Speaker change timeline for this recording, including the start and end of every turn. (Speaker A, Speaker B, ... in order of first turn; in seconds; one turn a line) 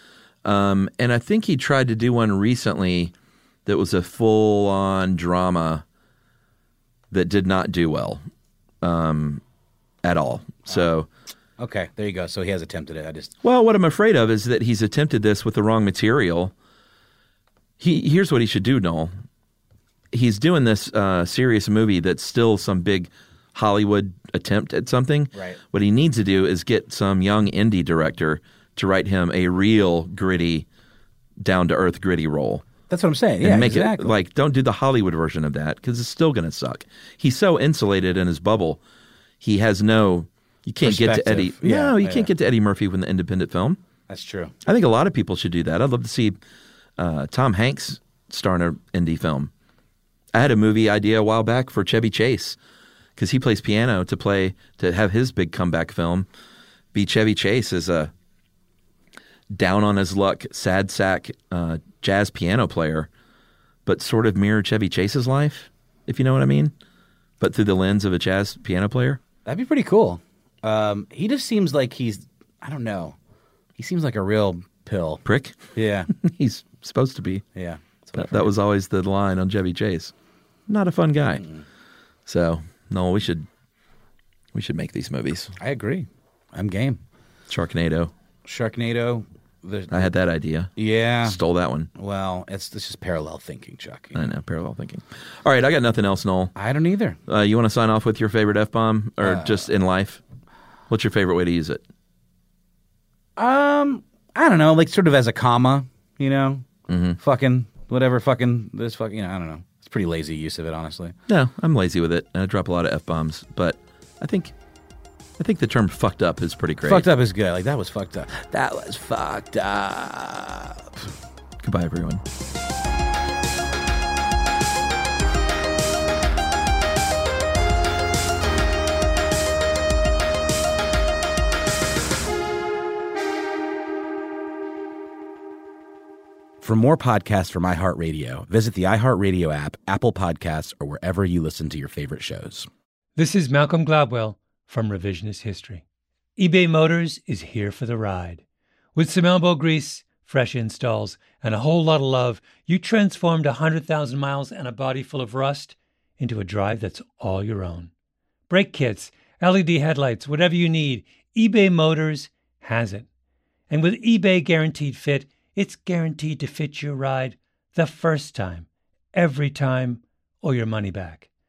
Speaker A: 0.4-3.1
Speaker A: 3.6-5.8
Speaker A: 7.1-8.2
Speaker A: 8.8-9.4
Speaker A: 10.0-11.1
Speaker B: 11.6-13.3
Speaker A: 13.4-16.5
Speaker A: 17.8-19.1
Speaker A: 20.1-30.6
Speaker B: 25.3-25.6
Speaker A: 31.4-32.6
Speaker B: 32.9-34.1
Speaker A: 33.4-38.8
Speaker A: 39.4-43.8
Speaker B: 40.8-42.3
Speaker B: 44.1-44.5
Speaker A: 44.6-46.4
Speaker A: 47.0-49.5
Speaker A: 50.3-52.6
Speaker A: 53.2-56.3
Speaker A: 56.9-58.1
Speaker A: 59.5-63.1
Speaker A: 63.9-66.7
Speaker A: 67.4-69.2
Speaker B: 69.5-73.2
Speaker B: 73.8-75.2
Speaker A: 75.2-75.6
Speaker B: 75.7-76.1
Speaker A: 76.1-77.4
Speaker B: 77.5-78.5
Speaker A: 78.2-80.1
Speaker A: 80.7-81.5
Speaker B: 81.3-81.6
Speaker A: 82.2-83.5
Speaker A: 84.5-85.5
Speaker B: 85.6-87.0
Speaker A: 87.5-88.1
Speaker B: 88.4-90.1
Speaker A: 89.9-90.7
Speaker B: 90.8-91.4
Speaker A: 91.2-91.9
Speaker B: 92.0-94.3
Speaker A: 94.1-96.5
Speaker B: 96.5-97.2
Speaker A: 97.3-100.2
Speaker B: 99.2-99.7
Speaker A: 100.9-101.8
Speaker B: 103.4-106.7
Speaker A: 106.9-107.2
Speaker B: 107.2-111.1
Speaker A: 111.3-114.5
Speaker A: 115.4-117.1
Speaker B: 116.8-121.0
Speaker A: 121.6-122.2
Speaker B: 136.6-142.7
Speaker C: 143.2-145.8
Speaker C: 146.4-148.4
Speaker C: 148.9-157.9
Speaker C: 158.5-163.1
Speaker C: 163.7-171.3